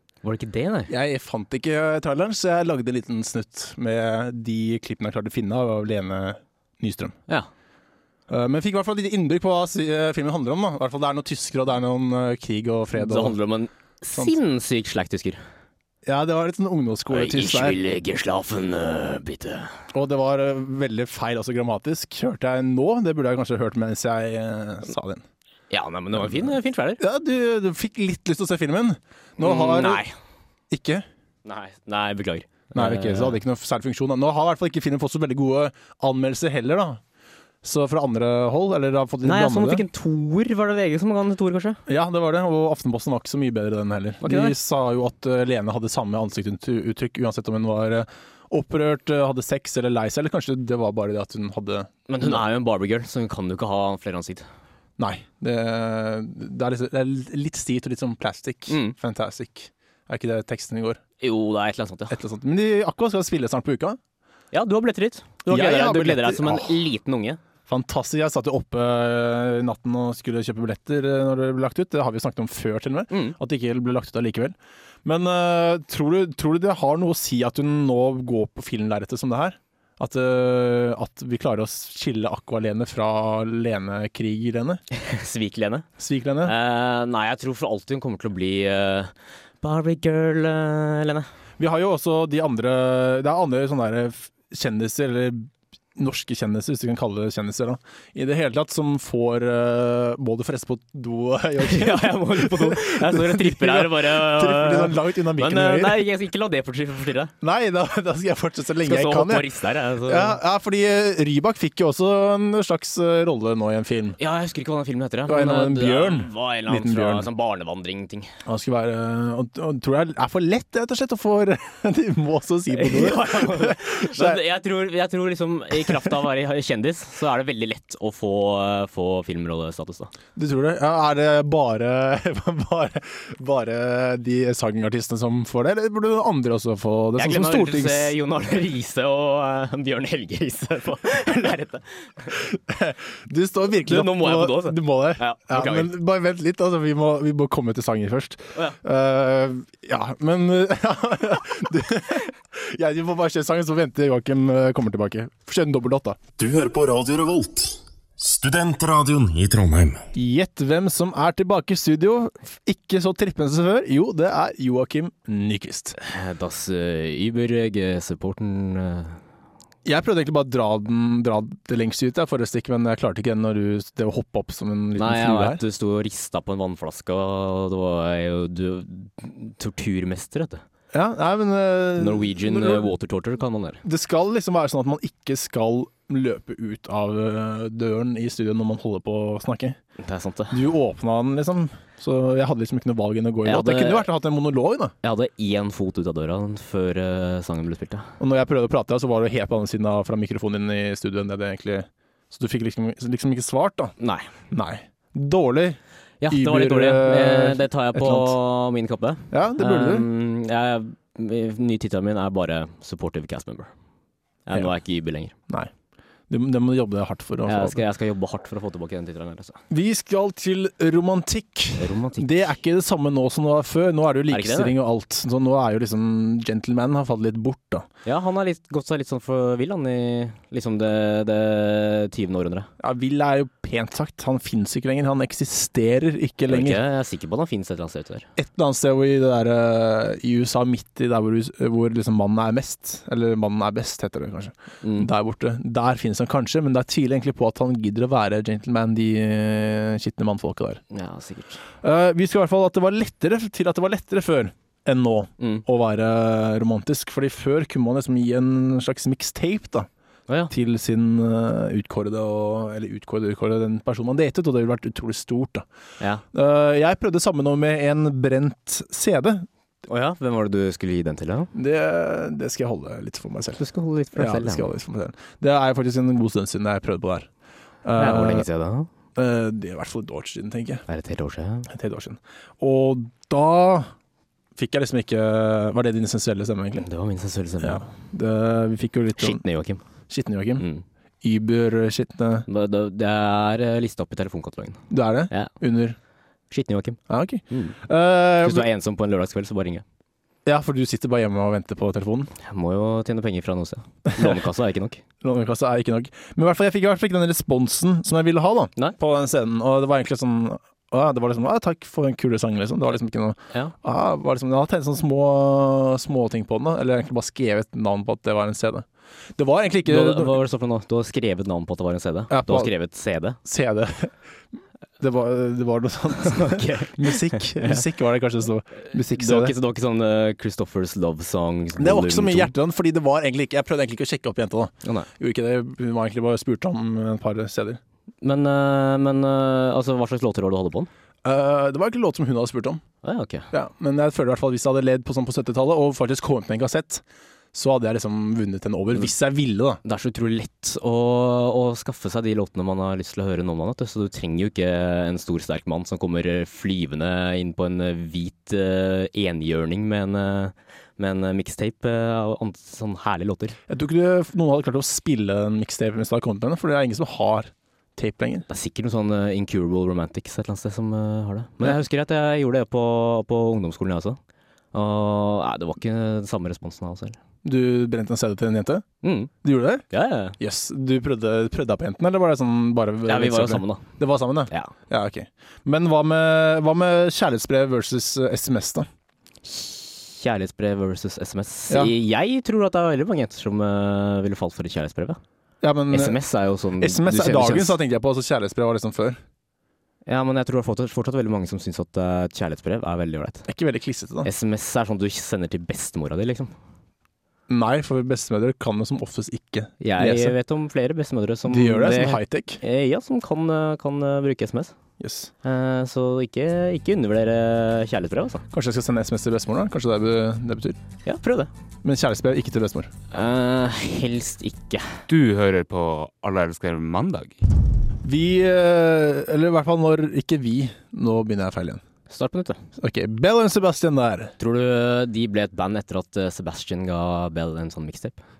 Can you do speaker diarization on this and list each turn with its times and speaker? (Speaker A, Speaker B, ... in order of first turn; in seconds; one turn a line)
Speaker A: 0.2-0.9
Speaker B: 0.9-7.2
Speaker B: 8.3-13.4
Speaker A: 12.9-15.4
Speaker B: 16.1-17.8
Speaker A: 17.1-19.8
Speaker B: 19.9-25.2
Speaker A: 25.7-27.0
Speaker B: 26.2-30.0
Speaker A: 29.4-30.1
Speaker B: 30.7-31.1
Speaker A: 31.4-33.4
Speaker B: 32.7-37.0
Speaker B: 37.6-39.9
Speaker A: 39.2-41.8
Speaker B: 41.9-52.4
Speaker A: 44.2-44.6
Speaker A: 52.1-54.5
Speaker B: 55.0-61.0
Speaker A: 58.7-59.0
Speaker A: 61.2-62.2
Speaker B: 62.1-64.0
Speaker A: 64.5-67.4
Speaker B: 65.5-66.8
Speaker B: 67.7-84.8
Speaker A: 73.1-73.4
Speaker A: 84.9-85.9
Speaker B: 86.0-86.5
Speaker A: 86.4-91.3
Speaker B: 91.6-106.1
Speaker A: 101.6-107.3
Speaker B: 107.4-109.5
Speaker A: 108.8-110.4
Speaker B: 110.0-114.2
Speaker A: 114.2-118.3
Speaker B: 115.3-117.3
Speaker B: 118.5-124.4
Speaker A: 122.7-130.1
Speaker B: 125.8-126.1
Speaker B: 130.4-138.2
Speaker A: 137.2-142.4
Speaker B: 142.3-156.2
Speaker A: 143.8-145.9
Speaker C: 156.4-160.1
Speaker B: 160.1-165.9
Speaker A: 166.0-169.2
Speaker B: 169.8-175.6
Speaker A: 175.0-180.6
Speaker B: 180.9-182.9
Speaker A: 182.0-183.8
Speaker B: 183.8-189.8
Speaker A: 190.0-190.6
Speaker B: 190.5-194.9
Speaker A: 193.4-194.1
Speaker A: 195.0-198.1
Speaker B: 198.2-203.9
Speaker A: 204.0-204.3
Speaker B: 204.5-205.8
Speaker A: 206.2-213.7
Speaker B: 206.3-208.4
Speaker B: 209.3-210.1
Speaker A: 214.5-215.3
Speaker B: 216.3-217.8
Speaker A: 217.5-219.6
Speaker B: 219.7-227.9
Speaker A: 221.8-222.5
Speaker A: 224.3-224.8
Speaker A: 228.1-232.7
Speaker B: 232.8-236.8
Speaker A: 236.5-238.3
Speaker B: 238.4-250.8
Speaker A: 244.8-245.1
Speaker A: 250.9-251.6
Speaker B: 251.8-259.9
Speaker A: 255.4-255.6
Speaker B: 260.5-265.7
Speaker B: 266.3-269.5
Speaker A: 269.9-271.5
Speaker B: 271.5-273.6
Speaker A: 273.6-274.7
Speaker B: 274.1-277.3
Speaker B: 277.9-278.5
Speaker A: 278.0-278.9
Speaker B: 279.2-280.8
Speaker A: 280.9-281.7
Speaker B: 281.7-283.9
Speaker B: 284.6-286.9
Speaker A: 286.8-287.9
Speaker B: 287.6-289.4
Speaker A: 289.2-289.8
Speaker B: 290.1-290.6
Speaker A: 290.6-290.9
Speaker B: 291.2-292.5
Speaker A: 292.5-295.5
Speaker B: 294.9-296.0
Speaker A: 296.5-297.0
Speaker B: 297.1-298.7
Speaker A: 297.5-297.8
Speaker A: 298.4-299.8
Speaker B: 300.4-302.3
Speaker A: 302.4-305.0
Speaker B: 305.2-318.9
Speaker B: 319.4-320.4
Speaker A: 319.9-323.4
Speaker B: 322.3-322.7
Speaker B: 323.4-324.1
Speaker B: 325.0-329.5
Speaker A: 326.2-327.8
Speaker A: 328.9-332.5
Speaker B: 331.8-337.8
Speaker A: 334.8-335.1
Speaker A: 338.2-340.9
Speaker B: 341.2-342.8
Speaker A: 343.0-343.5
Speaker B: 343.5-349.8
Speaker A: 349.8-363.6
Speaker B: 363.7-368.5
Speaker A: 368.5-374.2
Speaker A: 374.7-377.2
Speaker B: 377.4-378.9
Speaker A: 379.0-379.3
Speaker B: 379.4-379.9
Speaker A: 379.9-380.4
Speaker B: 380.4-388.9
Speaker A: 383.1-383.9
Speaker A: 389.4-395.2
Speaker B: 395.6-396.2
Speaker A: 395.9-397.8
Speaker B: 396.8-399.2
Speaker A: 400.1-403.5
Speaker B: 403.5-404.3
Speaker A: 404.2-406.5
Speaker B: 407.5-410.4
Speaker A: 409.8-414.8
Speaker B: 411.5-412.6
Speaker B: 415.0-415.3
Speaker A: 415.4-418.4
Speaker B: 418.5-420.8
Speaker A: 421.1-421.5
Speaker B: 421.8-422.9
Speaker A: 423.1-425.0
Speaker D: 425.1-427.4
Speaker B: 428.0-431.8
Speaker A: 432.1-432.6
Speaker B: 432.8-434.3
Speaker A: 434.4-438.2